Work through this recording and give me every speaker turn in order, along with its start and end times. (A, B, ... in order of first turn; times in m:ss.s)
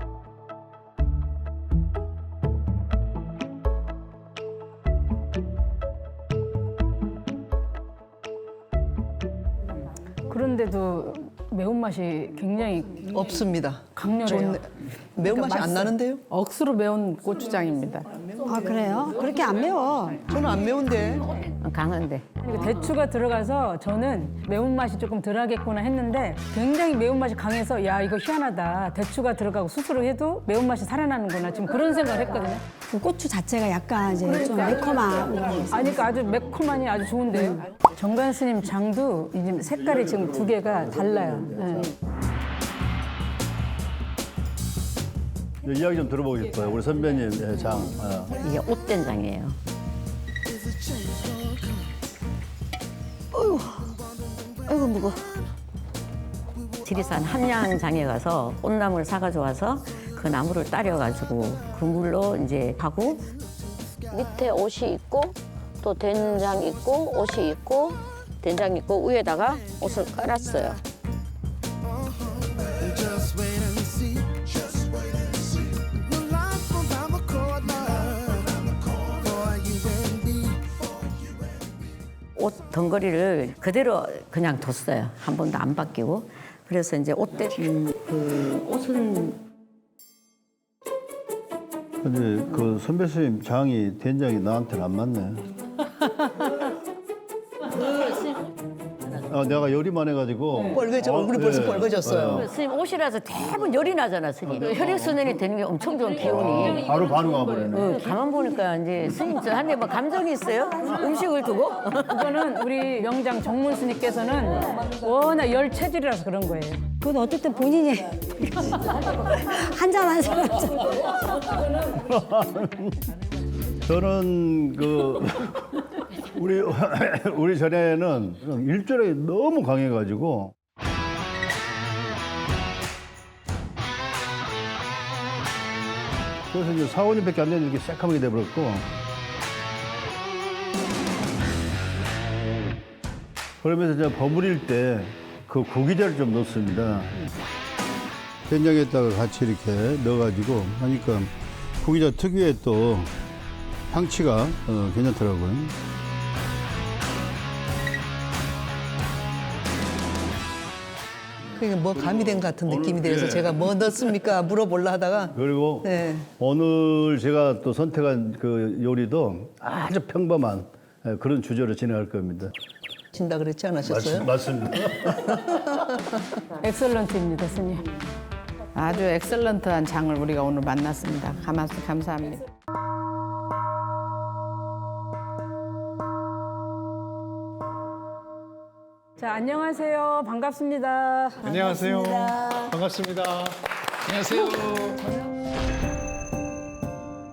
0:10.2-0:13.2 A
0:13.1-0:16.2 B
0:13.9-0:14.6 A
0:15.3-0:18.0 C
0:18.4-0:20.4 D
0:20.2-0:21.3 B
0:21.3-0:22.9 E
0:22.4-0:32.6 A
0:32.9-0:35.9 D
0:34.4-0:41.9 A
0:39.7-0:41.9 F
0:45.6-0:48.4 F
0:48.4-0:49.5 E
0:53.3-0:54.0 E
0:54.6-0:55.4 E
0:56.8-1:03.3 E
1:04.1-1:10.8 E
1:22.4-1:29.4 E
1:32.0-1:35.4 F
1:39.3-1:42.5 F
1:40.7-1:42.4 B
1:42.3-1:46.9 E
1:44.4-1:45.2 F
1:46.2-1:48.0 F
1:47.7-1:52.4 E
1:52.1-1:56.8 A
1:57.0-2:01.1 D
2:01.8-2:03.0 F
2:03.8-2:10.5 F
2:16.5-2:18.8 F
2:23.6-2:27.1 F
2:28.5-2:33.1 F
2:33.9-2:35.7 F
2:41.6-2:46.3 B
2:41.8-2:43.8 F
2:45.3-2:52.5 F
2:53.1-2:54.3 B
2:53.8-2:55.3 F
2:55.3-2:56.0 B
2:56.5-2:57.9 A
2:58.7-3:02.4 C
3:09.2-3:11.5 A
3:11.4-3:13.6 G
3:14.1-3:15.0 G